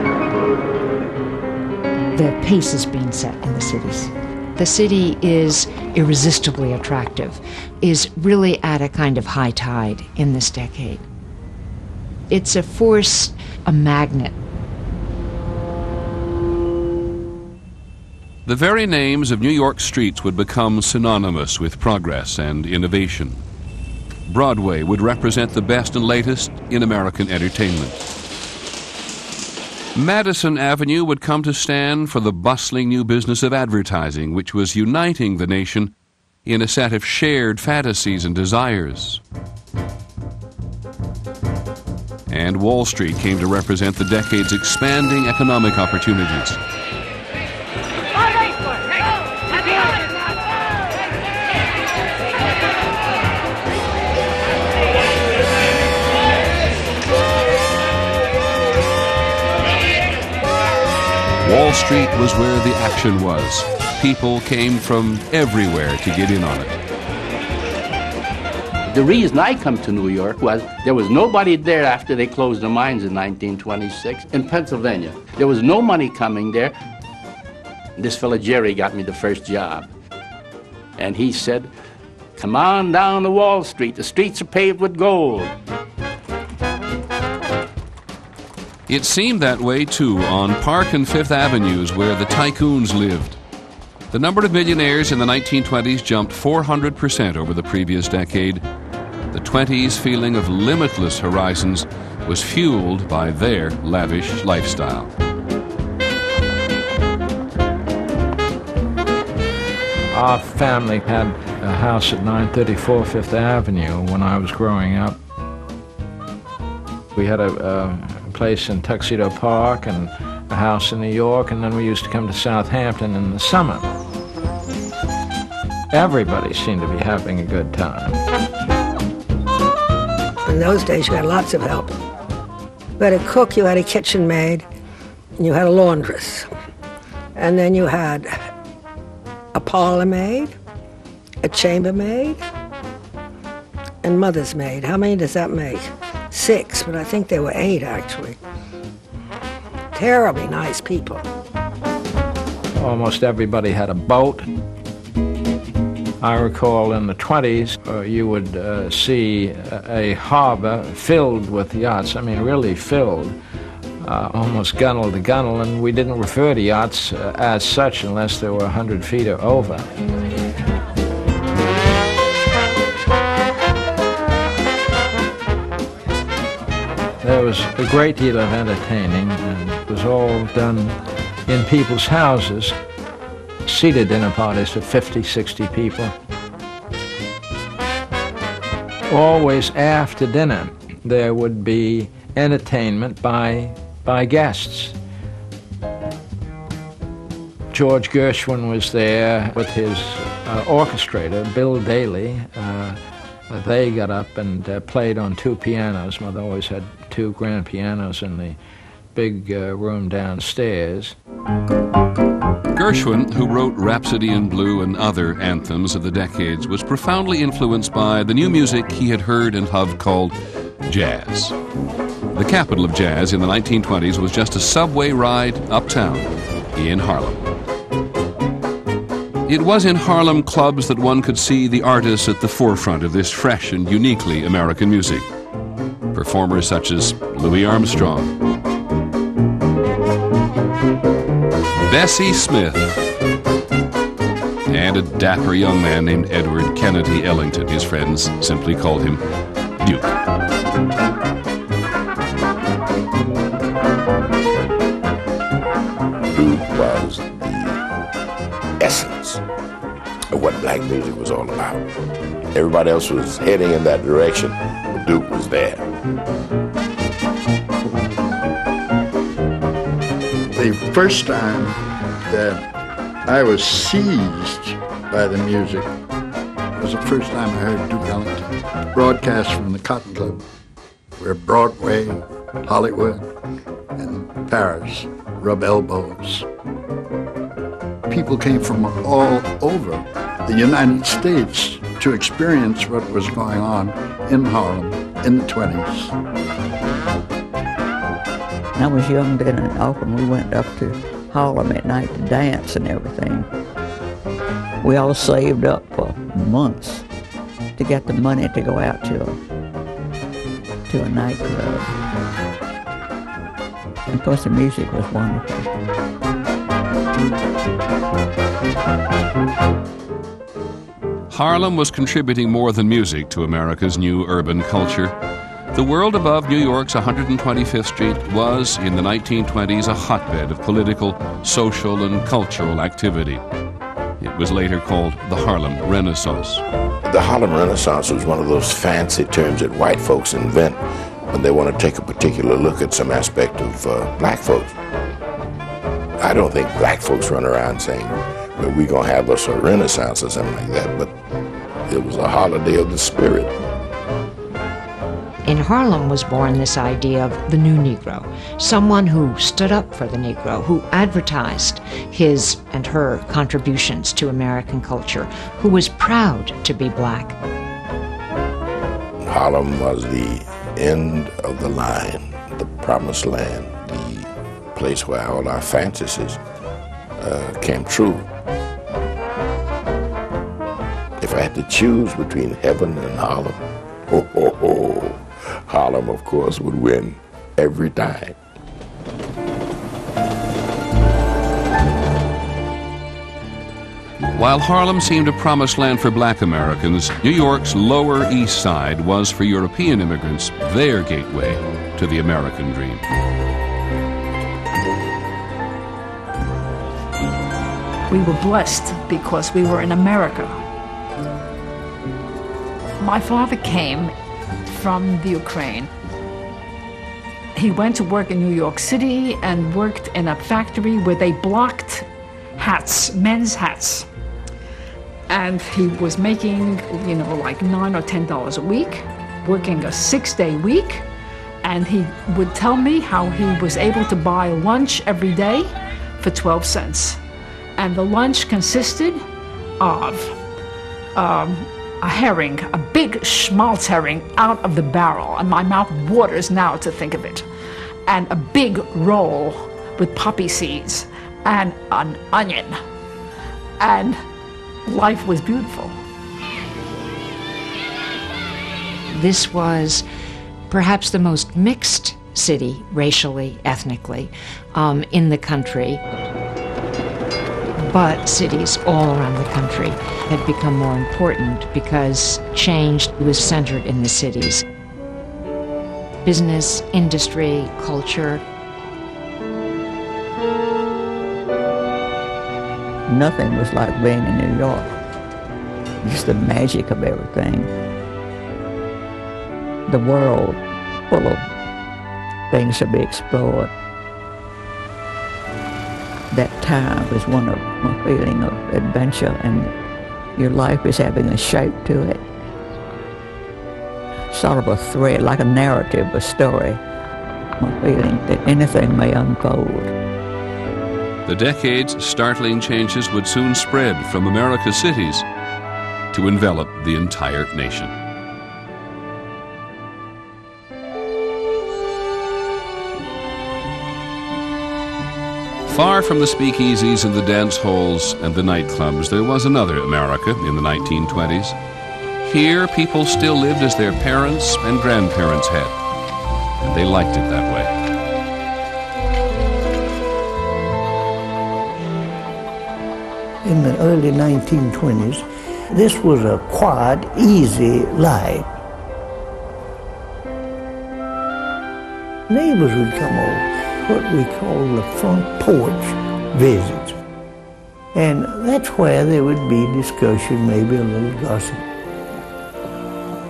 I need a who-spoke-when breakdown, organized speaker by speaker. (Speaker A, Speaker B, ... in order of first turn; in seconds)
Speaker A: 2.1-11.0, 12.3-14.3, 355.4-367.4, 459.1-460.1, 460.7-466.0, 467.8-474.6, 476.2-478.4
Speaker B: 18.4-23.4, 24.3-28.1, 29.9-35.9, 36.5-39.2, 42.3-46.6, 61.4-66.7, 88.9-93.4, 94.1-98.6, 99.3-105.1, 212.7-220.3, 220.9-221.6, 222.3-227.5, 229.5-235.3, 236.1-238.3, 241.9-243.0, 244.7-249.2, 249.8-250.1, 321.3-325.1, 325.7-333.4, 334.2-336.6, 394.3-403.1, 511.3-515.3, 516.1-518.0, 525.7-531.6, 532.2-535.8, 536.6-537.7
Speaker C: 68.9-76.8, 78.0-79.9, 81.0-81.7, 82.4-85.5
Speaker D: 110.1-115.2, 117.2-123.9, 125.9-128.2, 152.8-154.5, 156.2-163.4, 164.0-169.9, 177.2-182.8, 183.7-186.1, 189.1-195.0, 197.7-203.0, 203.5-208.6, 209.1-211.2
Speaker E: 130.5-131.9, 133.0-134.7, 135.4-136.5, 137.4-138.3, 139.6-140.6, 141.4-142.4, 144.0-148.4, 149.9-151.3
Speaker F: 256.3-257.8, 258.8-259.4, 260.3-261.9, 262.5-265.8, 337.1-344.8, 346.2-351.1, 351.9-353.5, 369.2-376.4, 377.2-378.3, 381.2-388.4
Speaker G: 270.5-272.6, 273.3-275.9, 276.7-280.4, 281.2-283.2, 284.0-286.5, 288.1-296.1
Speaker H: 298.8-303.5, 304.8-307.1, 307.8-309.4, 310.9-311.9, 314.1-315.7, 483.1-484.9, 486.0-487.7, 489.9-491.4, 492.5-493.7, 496.3-499.7, 500.4-502.2, 504.3-506.8, 507.6-509.9
Speaker I: 408.1-410.6, 413.0-414.1, 414.7-415.9, 417.6-422.1, 422.6-424.1, 425.3-431.1, 431.6-437.2, 437.8-439.2, 439.8-440.4, 441.2-447.4, 448.1-452.8, 453.8-454.2, 454.9-455.9
Speaker J: 543.5-545.2, 545.8-548.5, 552.3-557.0, 558.0-561.6